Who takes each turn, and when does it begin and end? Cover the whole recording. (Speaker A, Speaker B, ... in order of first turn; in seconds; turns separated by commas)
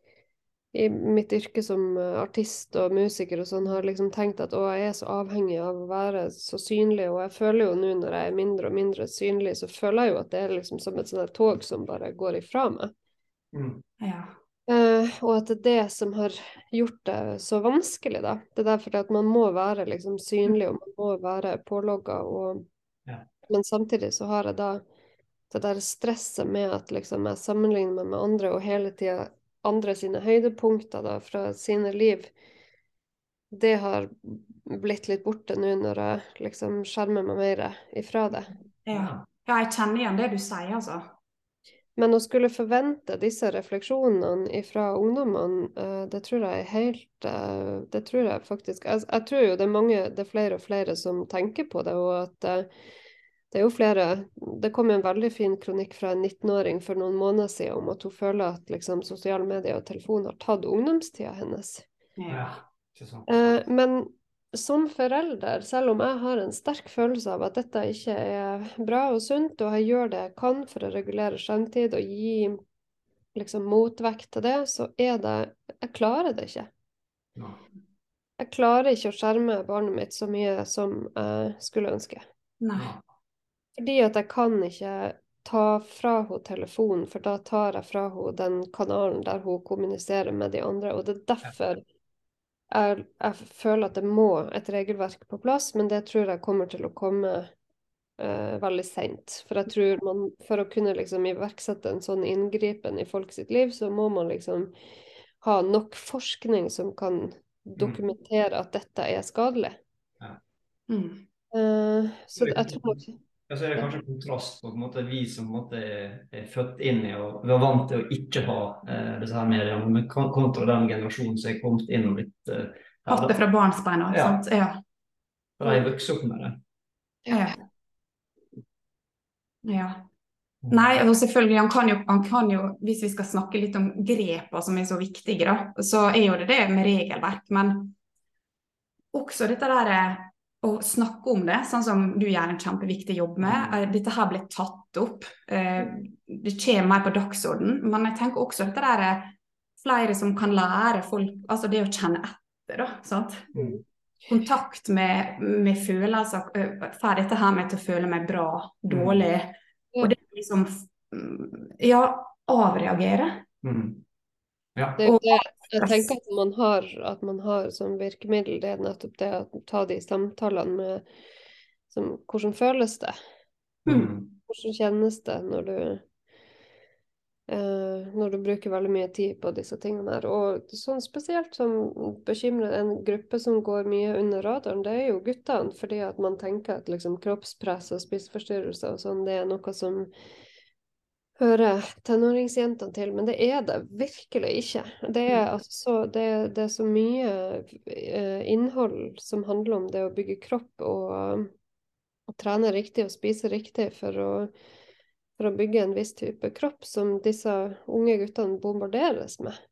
Speaker A: 0.7-12.9, Speaker B: 13.5-13.8, Speaker C: 14.0-14.3, Speaker A: 14.7-22.6, Speaker A: 23.5-24.8, Speaker A: 25.5-32.3, Speaker A: 33.5-38.5, Speaker C: 38.9-41.1, Speaker B: 38.9-39.2, Speaker A: 42.0-52.7, Speaker A: 53.5-61.9, Speaker C: 62.2-62.6, Speaker B: 62.3-63.6, Speaker A: 63.3-72.6, Speaker A: 73.3-76.7, Speaker B: 77.3-77.6, Speaker A: 78.4-82.2, Speaker C: 82.6-82.9, Speaker B: 82.8-83.0, Speaker A: 83.8-91.8, Speaker A: 92.7-97.5, Speaker A: 98.2-104.7, Speaker A: 105.4-109.8, Speaker B: 107.8-108.0, Speaker C: 110.9-111.2, Speaker A: 111.5-113.2, Speaker B: 112.3-123.3, Speaker C: 123.1-124.8, Speaker B: 124.1-124.4, Speaker B: 125.6-126.6, Speaker C: 127.3-127.6, Speaker C: 129.6-130.1, Speaker B: 130.6-131.0, Speaker C: 130.7-137.9, Speaker C: 139.1-153.5, Speaker B: 143.4-143.8, Speaker B: 153.5-153.8, Speaker C: 154.3-163.4, Speaker B: 158.9-159.3, Speaker B: 163.6-164.0, Speaker A: 165.0-171.0, Speaker C: 165.0-166.1, Speaker A: 171.9-173.1, Speaker C: 173.8-174.1, Speaker B: 173.8-174.3, Speaker A: 174.5-176.0, Speaker A: 177.5-190.1, Speaker A: 191.4-201.5, Speaker A: 202.3-204.5, Speaker A: 205.4-209.6